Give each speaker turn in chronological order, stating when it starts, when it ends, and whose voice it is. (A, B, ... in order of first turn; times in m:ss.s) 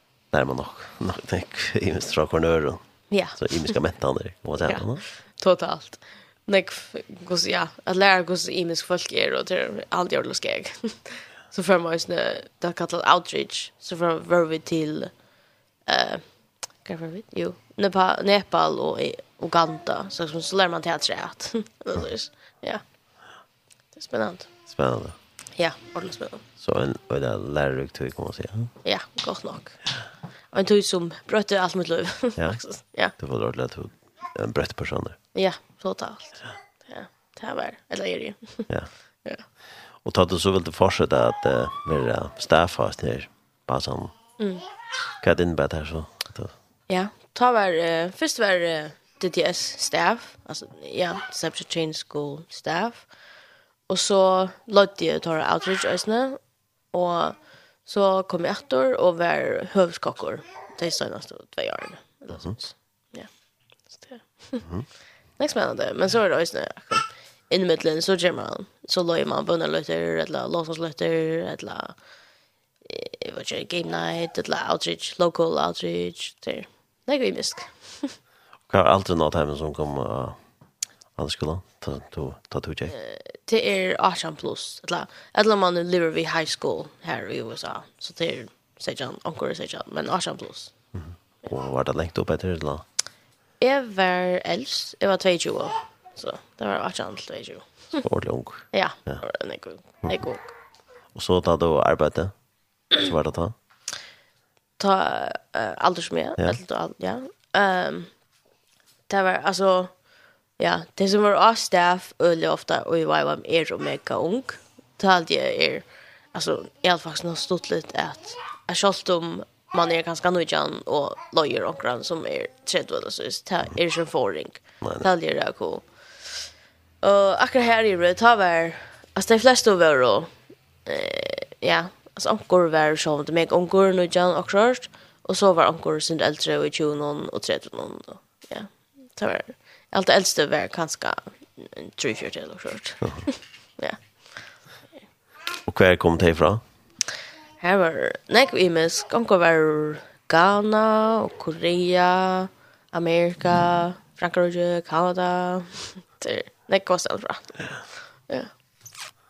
0:00.3-0:05.0 A
0:03.1-0:03.8 B
0:04.7-0:15.3 B
0:15.8-0:22.8 B
0:23.9-0:24.5 B
0:24.7-0:25.2 A
0:25.6-0:26.4 B
0:26.6-0:28.7 A
0:28.8-0:30.0 B
0:30.5-0:33.1 B
0:32.4-0:35.2 A
0:35.3-0:38.7 B
0:40.0-0:44.1 A
0:44.4-0:44.6 B
0:45.2-0:46.5 A
0:46.9-0:53.1 B
0:53.9-1:12.1 B
1:12.8-1:18.1 B
1:18.7-1:20.4 A
1:21.1-1:22.9 A
1:22.9-1:30.8 B
1:30.9-1:32.8 A
1:33.6-1:38.0 B
1:38.0-1:39.2 A
1:38.7-1:40.5 B
1:41.1-1:43.5 A
1:44.8-1:48.2 B
1:49.1-2:06.4 B
2:04.8-2:05.1 A
2:07.0-2:24.7 B
2:25.6-2:26.6 A
2:27.6-2:38.5 B